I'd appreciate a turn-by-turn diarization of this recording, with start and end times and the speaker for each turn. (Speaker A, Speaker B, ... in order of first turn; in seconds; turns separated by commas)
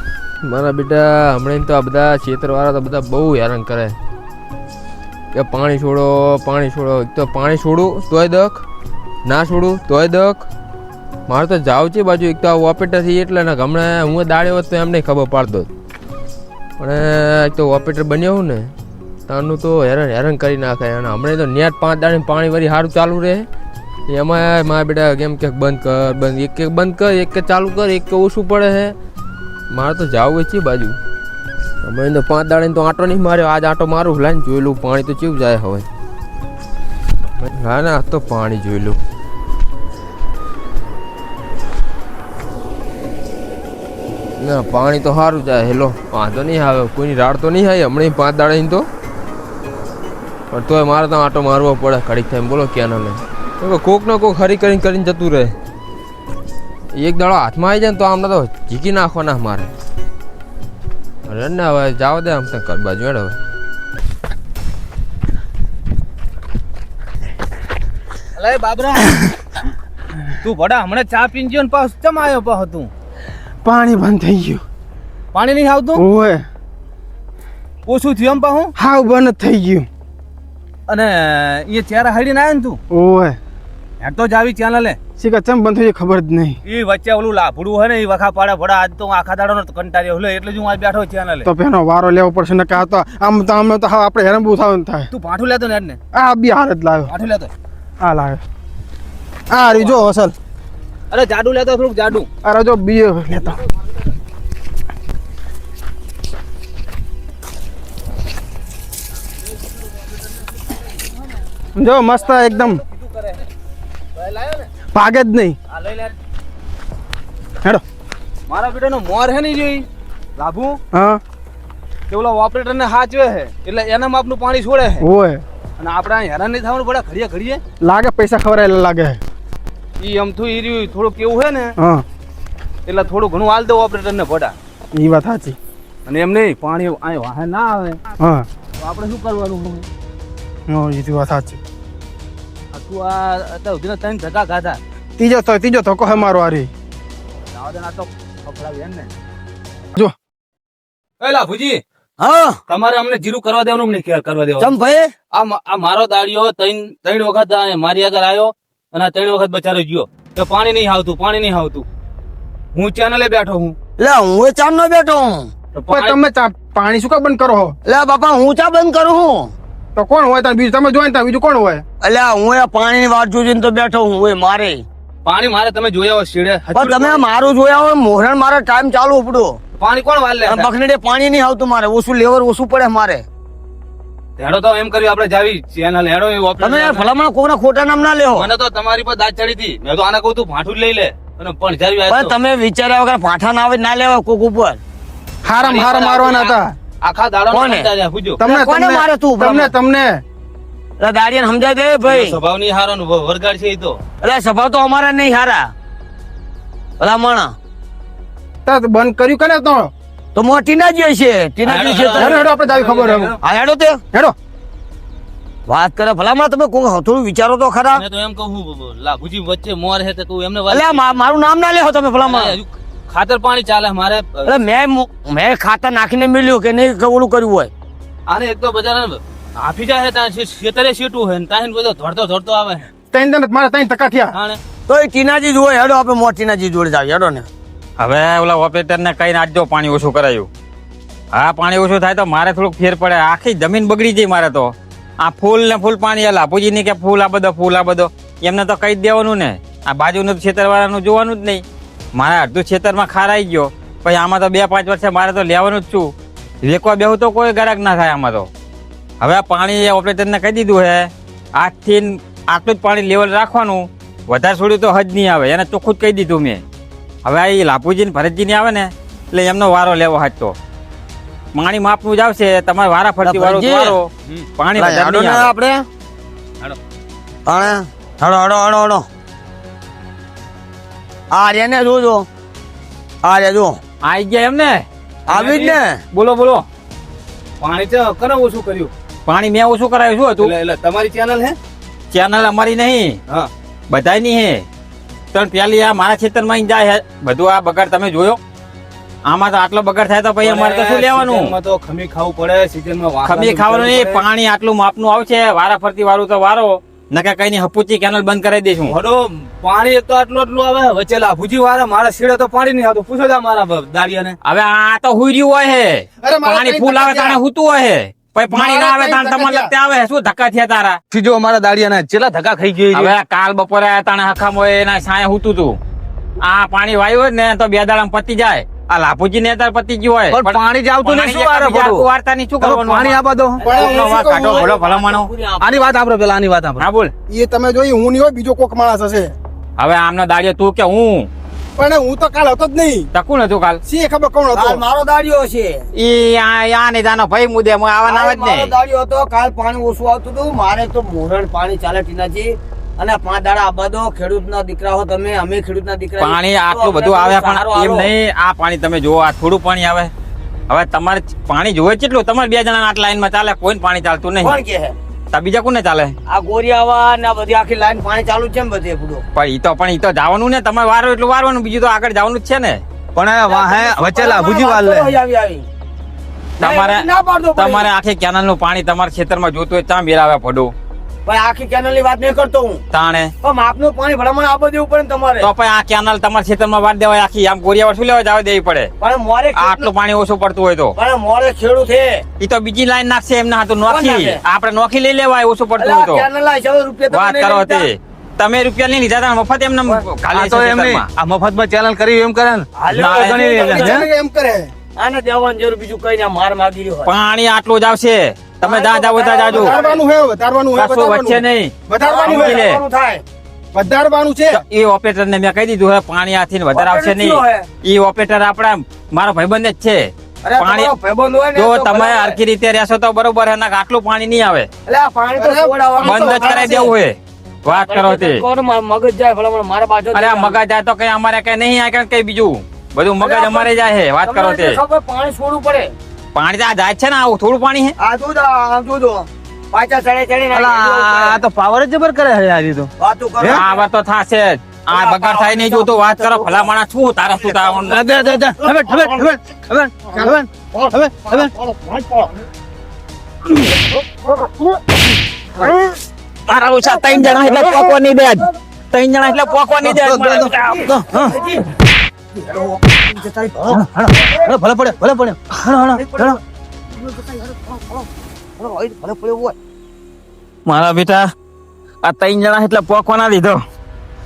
Speaker A: 0.4-3.9, Speaker A: 5.3-8.6, Speaker A: 9.2-10.5, Speaker A: 11.3-15.7, Speaker A: 16.8-18.7, Speaker A: 19.3-23.5, Speaker A: 24.1-28.9, Speaker A: 29.7-31.0, Speaker A: 31.8-35.9, Speaker A: 37.4-39.0, Speaker A: 44.4-48.9, Speaker A: 50.5-55.5, Speaker A: 57.0-59.7, Speaker A: 61.2-63.4, Speaker B: 68.4-69.0, Speaker B: 70.4-72.9, Speaker C: 73.6-74.6, Speaker B: 75.3-76.0, Speaker C: 75.9-76.4, Speaker B: 77.8-78.7, Speaker C: 78.8-79.9, Speaker B: 80.9-82.8, Speaker C: 82.9-83.4, Speaker B: 84.0-85.0, Speaker C: 85.2-86.6, Speaker B: 86.6-91.5, Speaker C: 91.4-95.1, Speaker B: 95.1-96.0, Speaker C: 96.1-97.1, Speaker B: 97.1-97.5, Speaker C: 98.0-98.4, Speaker C: 99.5-100.3, Speaker B: 99.6-100.0, Speaker B: 101.1-102.3, Speaker C: 102.4-103.6, Speaker C: 111.7-112.8, Speaker B: 112.2-113.5, Speaker B: 114.1-114.7, Speaker C: 114.9-115.6, Speaker B: 115.7-116.1, Speaker B: 118.5-120.8, Speaker C: 120.9-121.2, Speaker B: 122.1-125.0, Speaker C: 125.0-125.4, Speaker B: 125.8-127.6, Speaker C: 127.8-129.2, Speaker B: 130.0-131.7, Speaker C: 131.8-132.0, Speaker B: 132.8-134.6, Speaker C: 134.9-135.6, Speaker B: 136.1-138.0, Speaker C: 138.2-138.4, Speaker B: 138.8-139.9, Speaker C: 140.7-141.6, Speaker B: 142.7-144.8, Speaker C: 145.2-146.7, Speaker B: 147.5-149.1, Speaker B: 151.2-151.8, Speaker D: 152.2-152.6, Speaker B: 152.7-154.7, Speaker D: 154.6-155.1, Speaker B: 155.3-161.8, Speaker B: 162.7-163.8, Speaker D: 164.0-165.5, Speaker B: 165.7-166.2, Speaker C: 165.9-167.8, Speaker D: 167.8-169.5, Speaker C: 169.9-171.8, Speaker D: 172.0-174.8, Speaker B: 175.2-177.2, Speaker D: 176.7-179.5, Speaker B: 179.8-180.7, Speaker D: 180.4-183.2, Speaker B: 184.4-187.1, Speaker D: 186.6-188.5, Speaker B: 188.3-192.3, Speaker D: 192.1-194.8, Speaker C: 195.4-196.7, Speaker B: 195.6-198.4, Speaker D: 197.5-197.9, Speaker C: 198.4-200.2, Speaker D: 198.4-199.7, Speaker D: 201.0-202.4, Speaker B: 202.0-204.0, Speaker D: 204.2-205.7, Speaker D: 207.0-207.5, Speaker C: 208.6-209.9, Speaker D: 210.3-212.5, Speaker B: 211.6-213.4, Speaker C: 212.1-213.3, Speaker D: 213.4-214.0, Speaker D: 215.7-218.0, Speaker B: 217.9-221.1, Speaker D: 220.7-222.6, Speaker B: 222.2-224.5, Speaker D: 224.4-227.7, Speaker B: 228.3-232.8, Speaker C: 233.1-234.3, Speaker B: 234.3-234.6, Speaker D: 234.9-237.5, Speaker E: 238.0-240.5, Speaker E: 241.3-251.6, Speaker E: 252.2-256.1, Speaker E: 256.6-258.5, Speaker E: 259.2-266.6, Speaker E: 267.2-270.5, Speaker E: 271.5-275.5, Speaker D: 273.2-274.0, Speaker D: 274.8-275.9, Speaker D: 277.4-279.0, Speaker D: 281.3-282.3, Speaker D: 283.2-283.8, Speaker E: 284.0-284.8, Speaker D: 285.3-286.0, Speaker B: 285.3-285.8, Speaker E: 286.1-286.6, Speaker B: 287.6-288.9, Speaker E: 289.2-290.5, Speaker B: 290.4-291.6, Speaker E: 292.1-293.2, Speaker E: 293.9-294.6, Speaker E: 295.3-298.4, Speaker E: 299.3-301.5, Speaker B: 300.4-304.2, Speaker E: 303.2-308.9, Speaker B: 308.9-314.4, Speaker E: 314.4-321.0, Speaker C: 316.2-317.4, Speaker C: 318.5-319.7, Speaker B: 321.1-323.1, Speaker E: 322.9-325.8, Speaker E: 326.4-335.3, Speaker B: 330.3-332.1, Speaker B: 332.6-333.7, Speaker D: 333.6-335.7, Speaker C: 333.6-334.7, Speaker B: 335.6-336.8, Speaker E: 336.8-337.1, Speaker C: 337.3-339.3, Speaker E: 339.8-341.3, Speaker C: 341.8-343.1, Speaker E: 343.1-343.8, Speaker C: 343.9-344.8, Speaker D: 344.5-345.9, Speaker E: 345.9-348.7, Speaker D: 348.0-358.1, Speaker E: 356.2-360.1, Speaker E: 360.7-364.6, Speaker D: 364.4-364.9, Speaker E: 365.3-366.1, Speaker D: 366.3-369.2, Speaker E: 369.3-372.8, Speaker B: 373.1-375.1, Speaker D: 373.4-375.6, Speaker E: 376.6-377.0, Speaker D: 376.6-377.9, Speaker E: 377.6-380.7, Speaker D: 381.2-382.8, Speaker E: 382.9-383.3, Speaker D: 383.4-385.5, Speaker E: 385.4-388.9, Speaker D: 389.0-389.9, Speaker E: 389.6-390.9, Speaker D: 391.0-392.2, Speaker E: 392.4-396.2, Speaker D: 393.9-394.4, Speaker D: 395.8-397.9, Speaker E: 397.1-401.1, Speaker B: 400.3-404.0, Speaker D: 402.8-404.1, Speaker E: 402.9-403.6, Speaker C: 403.4-404.7, Speaker D: 405.0-407.1, Speaker E: 407.0-409.8, Speaker D: 408.6-410.0, Speaker C: 409.4-412.6, Speaker E: 410.8-412.8, Speaker D: 412.0-413.2, Speaker C: 413.7-414.6, Speaker E: 414.5-420.9, Speaker D: 416.7-417.7, Speaker D: 420.4-422.4, Speaker E: 421.5-424.7, Speaker D: 424.9-426.9, Speaker C: 425.4-426.6, Speaker E: 426.0-428.4, Speaker D: 427.6-430.6, Speaker E: 430.1-434.8, Speaker D: 433.2-433.7, Speaker D: 434.2-435.9, Speaker E: 436.3-437.9, Speaker D: 438.0-441.4, Speaker B: 440.5-442.9, Speaker D: 443.0-443.8, Speaker E: 443.5-448.0, Speaker D: 444.9-446.7, Speaker B: 447.9-451.5, Speaker D: 448.6-449.3, Speaker D: 450.2-452.3, Speaker E: 456.5-460.9, Speaker B: 459.8-461.4, Speaker D: 461.1-461.6, Speaker D: 462.4-464.5, Speaker B: 463.7-466.4, Speaker D: 466.0-466.4, Speaker D: 466.9-469.5, Speaker E: 470.6-471.2, Speaker E: 472.0-473.6